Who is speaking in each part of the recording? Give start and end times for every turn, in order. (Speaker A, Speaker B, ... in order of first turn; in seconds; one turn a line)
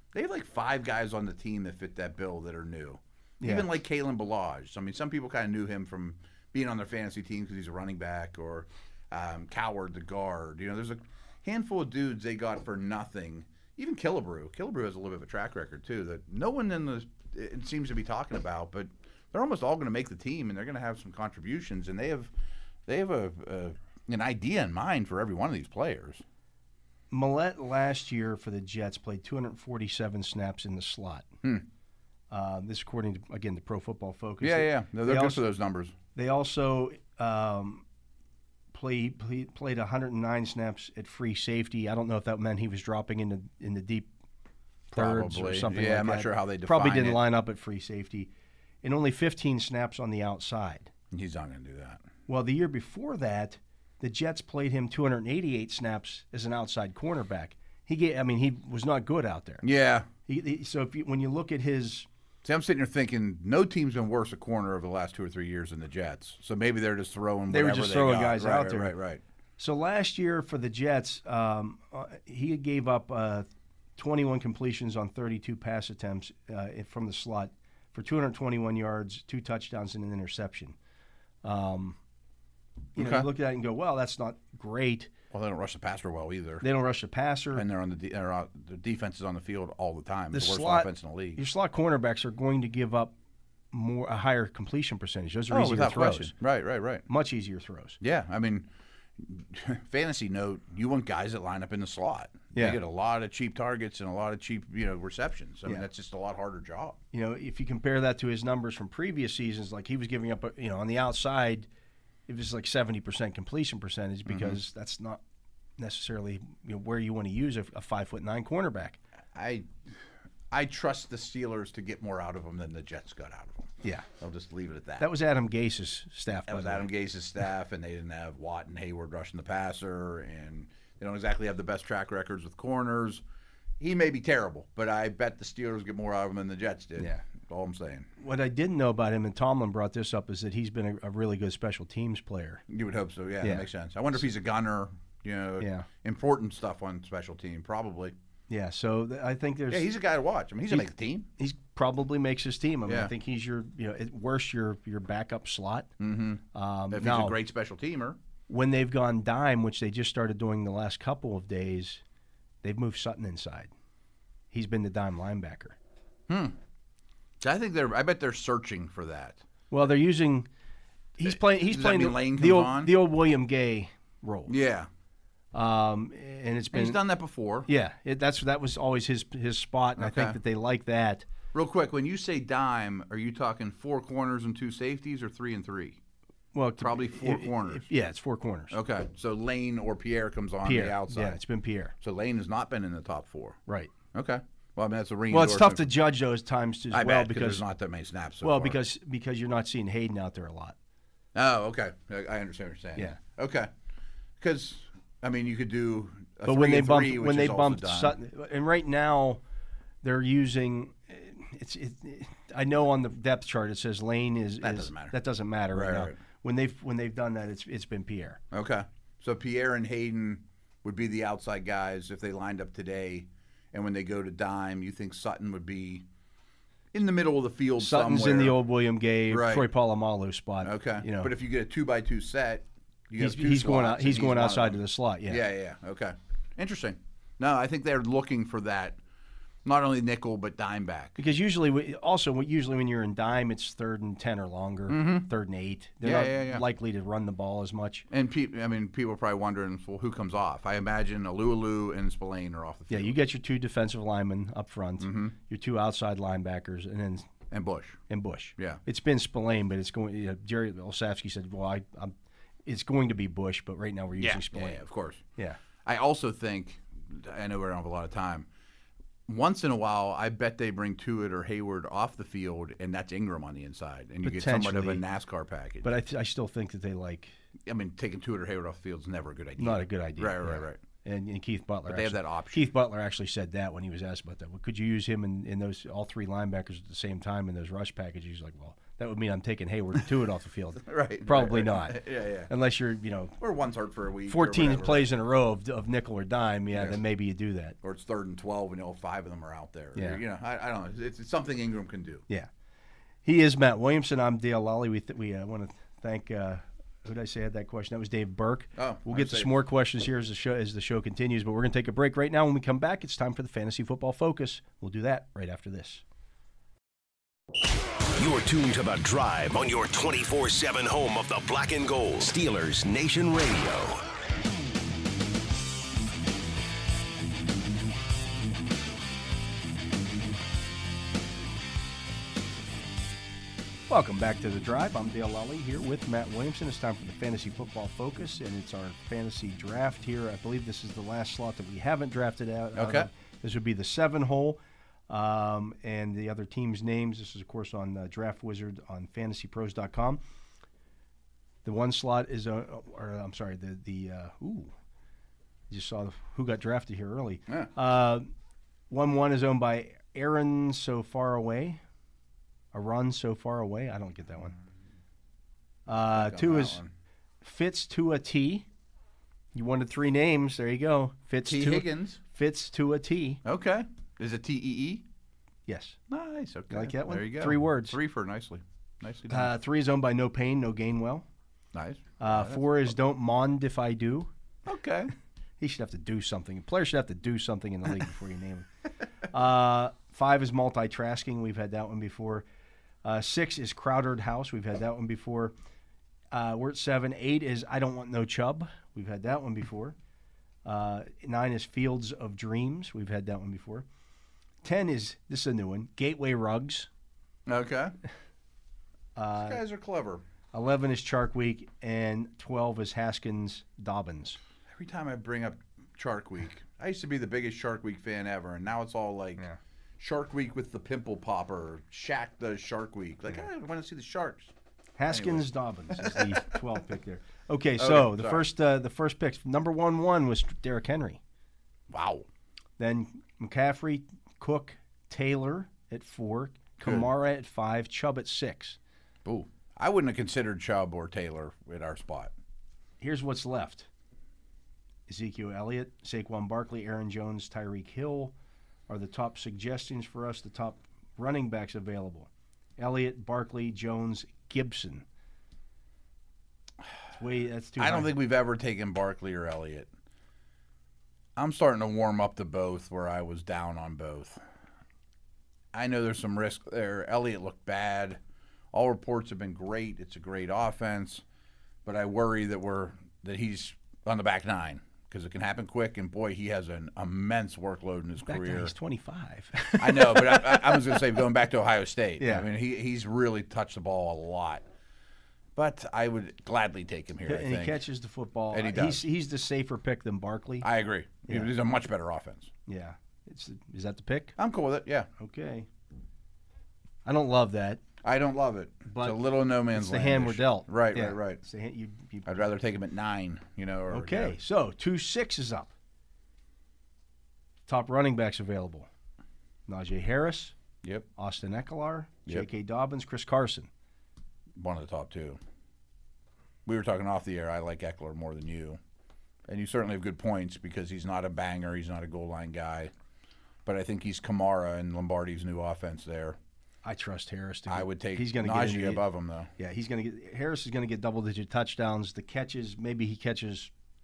Speaker A: 0.1-22.3
Speaker B: 3.4-3.7
Speaker A: 22.9-26.2
Speaker B: 27.1-31.3
Speaker B: 32.3-35.4
Speaker A: 34.4-35.9
Speaker B: 36.1-37.8
Speaker B: 38.7-44.1
Speaker B: 44.9-48.3
Speaker A: 44.9-47.2
Speaker B: 48.8-50.9
Speaker A: 51.1-52.0
Speaker B: 52.3-59.6
Speaker A: 59.6-60.1
Speaker B: 60.3-62.1
Speaker A: 62.4-69.2
Speaker B: 67.5-68.9
Speaker B: 69.6-73.5
Speaker B: 74.0-80.8
Speaker B: 81.4-82.0
Speaker A: 83.0-83.3
Speaker B: 83.0-85.1
Speaker A: 85.3-86.6
Speaker B: 86.6-87.6
Speaker A: 87.5-91.4
Speaker B: 90.3-93.1
Speaker B: 93.7-96.3
Speaker A: 95.5-97.0
Speaker B: 97.1-98.0
Speaker A: 98.0-107.0
Speaker B: 102.5-102.8
Speaker B: 107.1-111.7
Speaker B: 112.3-115.2
Speaker A: 114.2-114.6
Speaker B: 115.8-119.0
Speaker A: 119.3-120.0
Speaker A: 120.5-125.1
Speaker B: 125.0-126.9
Speaker A: 126.5-133.2
Speaker A: 133.8-138.1
Speaker B: 138.2-142.6
Speaker A: 142.7-148.1
Speaker B: 145.6-145.9
Speaker B: 148.5-149.9
Speaker A: 149.7-151.3
Speaker B: 150.7-155.9
Speaker A: 152.8-153.1
Speaker A: 156.0-158.2
Speaker B: 156.5-157.4
Speaker B: 158.5-162.0
Speaker B: 162.6-163.7
Speaker B: 164.5-165.8
Speaker A: 166.3-166.6
Speaker A: 167.4-169.4
Speaker B: 169.7-170.5
Speaker B: 171.2-174.5
Speaker A: 171.2-172.9
Speaker A: 174.5-174.9
Speaker B: 175.5-177.0
Speaker A: 176.7-177.7
Speaker B: 177.6-181.2
Speaker A: 180.0-180.4
Speaker A: 181.5-186.0
Speaker B: 186.5-188.8
Speaker A: 186.8-187.9
Speaker A: 188.7-191.4
Speaker B: 190.6-191.9
Speaker A: 192.0-193.6
Speaker B: 193.7-193.9
Speaker A: 194.1-195.9
Speaker B: 195.3-197.6
Speaker A: 196.9-198.8
Speaker B: 198.4-200.8
Speaker A: 201.3-203.7
Speaker A: 204.4-208.1
Speaker B: 206.4-209.4
Speaker B: 210.0-218.4
Speaker A: 214.6-215.1
Speaker A: 215.7-216.2
Speaker A: 218.5-226.1
Speaker A: 226.9-228.6
Speaker B: 227.8-231.3
Speaker A: 229.3-229.7
Speaker A: 230.6-239.0
Speaker B: 233.2-235.4
Speaker A: 239.6-241.2
Speaker B: 241.2-248.1
Speaker A: 244.9-245.3
Speaker A: 246.0-246.6
Speaker A: 248.1-253.1
Speaker B: 252.9-257.3
Speaker A: 255.0-255.3
Speaker A: 257.5-258.0
Speaker B: 258.1-262.1
Speaker B: 262.6-264.8
Speaker A: 264.2-265.2
Speaker A: 265.8-268.5
Speaker A: 269.3-275.9
Speaker B: 274.2-275.0
Speaker B: 275.8-277.3
Speaker A: 277.6-280.8
Speaker B: 279.6-293.4
Speaker A: 281.9-282.7
Speaker A: 290.8-292.5
Speaker A: 293.4-295.1
Speaker B: 294.3-297.8
Speaker A: 296.7-297.0
Speaker A: 297.8-302.2
Speaker B: 299.9-300.2
Speaker B: 303.2-316.0
Speaker A: 308.8-309.6
Speaker C: 318.2-324.0
Speaker B: 333.9-350.2
Speaker A: 342.8-343.1
Speaker B: 351.6-354.7
Speaker B: 355.7-358.3
Speaker B: 358.9-361.8
Speaker B: 362.7-364.6
Speaker B: 365.9-366.8
Speaker A: 366.1-366.9
Speaker B: 367.4-368.7
Speaker B: 369.5-373.4
Speaker A: 371.4-372.2
Speaker A: 373.4-375.0
Speaker B: 375.7-376.0
Speaker A: 376.1-379.5
Speaker B: 376.7-378.0
Speaker B: 379.3-381.2
Speaker A: 381.7-382.9
Speaker B: 382.2-384.3
Speaker A: 384.6-385.1
Speaker B: 385.6-388.7
Speaker B: 389.2-392.4
Speaker B: 393.0-395.5
Speaker B: 396.3-399.9
Speaker B: 400.6-403.9
Speaker B: 404.6-406.9
Speaker A: 407.4-407.9
Speaker B: 409.1-409.6
Speaker A: 409.4-410.2
Speaker B: 410.5-414.4
Speaker A: 414.7-419.4
Speaker A: 420.0-424.5
Speaker B: 425.0-431.2
Speaker A: 425.1-426.5
Speaker A: 427.8-428.5
Speaker A: 431.9-432.3
Speaker B: 432.8-438.8
Speaker A: 436.8-437.1
Speaker A: 439.2-442.3
Speaker B: 443.0-443.9
Speaker B: 445.1-448.3
Speaker B: 448.9-455.1
Speaker B: 457.1-458.1
Speaker A: 457.8-459.9
Speaker A: 461.4-464.4
Speaker A: 465.7-468.2
Speaker A: 468.7-471.2
Speaker A: 471.8-478.7
Speaker B: 478.2-481.0
Speaker A: 479.8-484.6
Speaker B: 482.2-482.5
Speaker A: 485.6-487.8
Speaker B: 487.2-490.7
Speaker A: 488.5-489.1
Speaker A: 490.6-492.5
Speaker B: 492.7-494.4
Speaker A: 494.4-495.1
Speaker B: 495.2-495.7
Speaker B: 497.0-497.8
Speaker A: 498.0-501.4
Speaker B: 498.9-502.3
Speaker A: 502.2-504.4
Speaker B: 503.9-505.7
Speaker B: 507.7-508.9
Speaker B: 509.7-510.5
Speaker B: 511.1-513.7
Speaker A: 514.5-515.4
Speaker A: 516.6-518.8
Speaker A: 519.5-522.9
Speaker A: 523.6-526.4
Speaker B: 526.8-529.0
Speaker A: 527.7-529.5
Speaker B: 529.6-533.7